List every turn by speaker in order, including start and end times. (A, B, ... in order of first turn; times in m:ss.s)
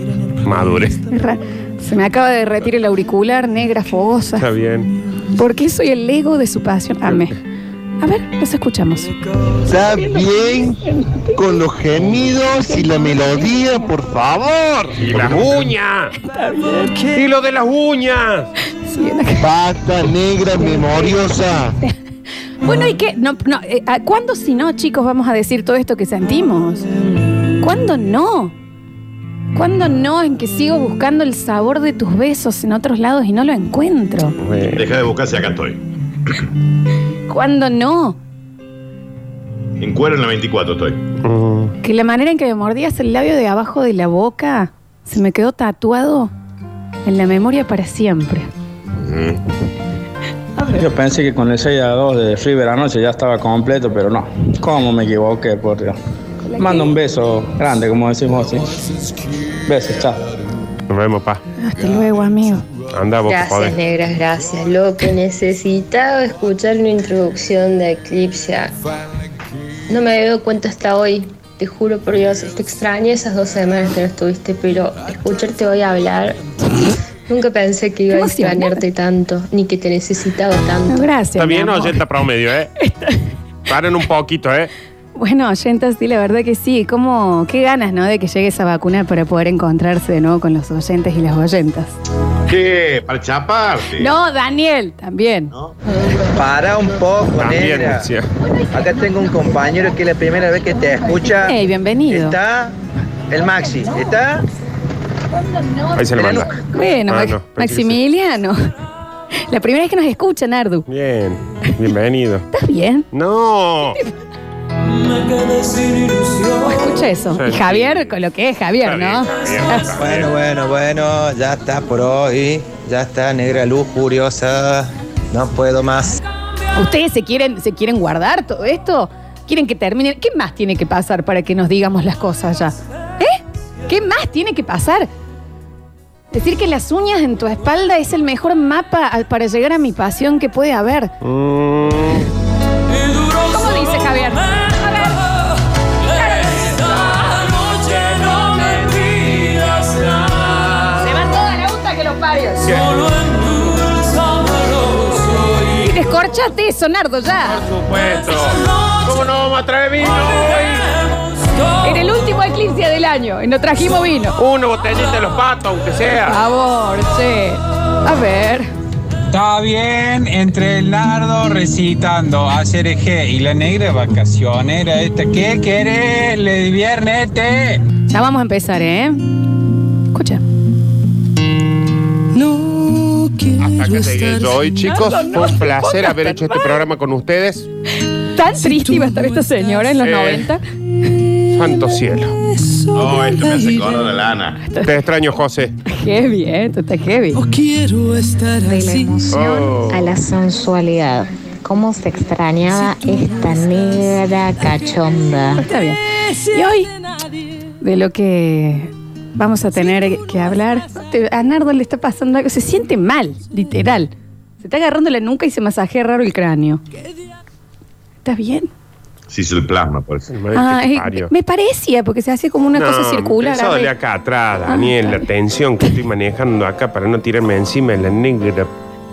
0:00.4-0:01.0 A
0:01.1-0:04.5 B
0:04.4-0:04.9 A
0:05.4-0:07.4 B
0:08.0-0:09.1 B
0:09.7-0:10.8 C
0:09.8-0:11.6 B
0:11.4-0:15.5 C
0:12.6-0:13.9 B
0:15.0-0:16.1 A
0:16.2-0:17.0 B
0:17.1-0:18.5 A
0:18.9-0:19.5 B
0:19.4-0:21.8 C
0:20.6-0:21.2 B
0:22.6-0:26.9 B
0:27.6-0:28.5 B
0:29.6-0:34.4 B
0:34.4-0:34.9 A
0:34.8-0:36.4 D
0:37.3-0:38.2 B
0:39.8-0:41.0 D
0:41.2-0:41.7 A
0:41.8-0:46.3 B
0:47.1-0:48.5 B
0:49.0-0:49.4 D
0:50.8-0:56.0 E
0:56.4-0:56.9 B
0:56.6-0:58.7 E
0:59.7-1:00.2 E
1:00.9-1:01.4 A
1:01.6-1:02.7 B
1:02.9-1:03.8 A
1:03.3-1:08.7 F
1:09.9-1:16.4 F
1:17.3-1:21.1 F
1:18.1-1:18.8 B
1:20.9-1:22.0 B
1:21.4-1:22.7 A
1:22.8-1:23.1 B
1:23.7-1:24.7 A
1:25.2-1:32.0 B
1:32.5-1:34.1 D
1:34.0-1:35.5 B
1:36.4-1:38.1 G
1:37.4-1:38.3 A
1:38.8-1:41.5 G
1:41.4-1:42.4 B
1:42.1-1:42.7 G
1:43.3-1:44.4 G
1:46.0-1:46.6 A
1:46.6-1:48.6 B
1:47.1-1:48.0 A
1:49.5-1:50.8 B
1:50.9-1:52.5 A
1:52.5-1:53.1 B
1:53.1-1:54.0 A
1:56.6-1:59.9 B
1:57.3-1:58.1 A
1:58.8-2:00.3 A
2:00.0-2:06.2 G
2:06.8-2:15.1 B
2:16.3-2:21.1 B
2:21.2-2:22.3 A
2:23.5-2:25.2 B
2:26.2-2:26.8 B
2:28.1-2:28.8 A
2:31.0-2:32.6 B
2:32.6-2:32.9 A
2:35.8-2:37.6 B
2:37.5-2:40.9 A
2:41.8-2:44.4 B
2:44.4-2:46.4 A
2:46.2-2:48.7 B
2:49.3-2:57.8 H
2:58.1-2:59.2 B
3:00.1-3:00.4 B
3:03.6-3:07.7 A
3:04.8-3:06.8 B
3:08.3-3:10.6 B
3:10.0-3:10.5 A
3:11.5-3:12.4 A
3:12.9-3:14.6 D
3:14.8-3:15.7 A
3:15.9-3:17.4 B
3:18.6-3:25.6 I
3:19.3-3:20.0 A
3:25.6-3:26.9 B
3:27.8-3:36.8 B
3:38.2-3:38.7 B
3:39.3-3:40.3 D
3:40.3-3:41.3 A
3:40.5-3:43.9 B
3:42.8-3:48.7 A
3:44.7-3:45.3 B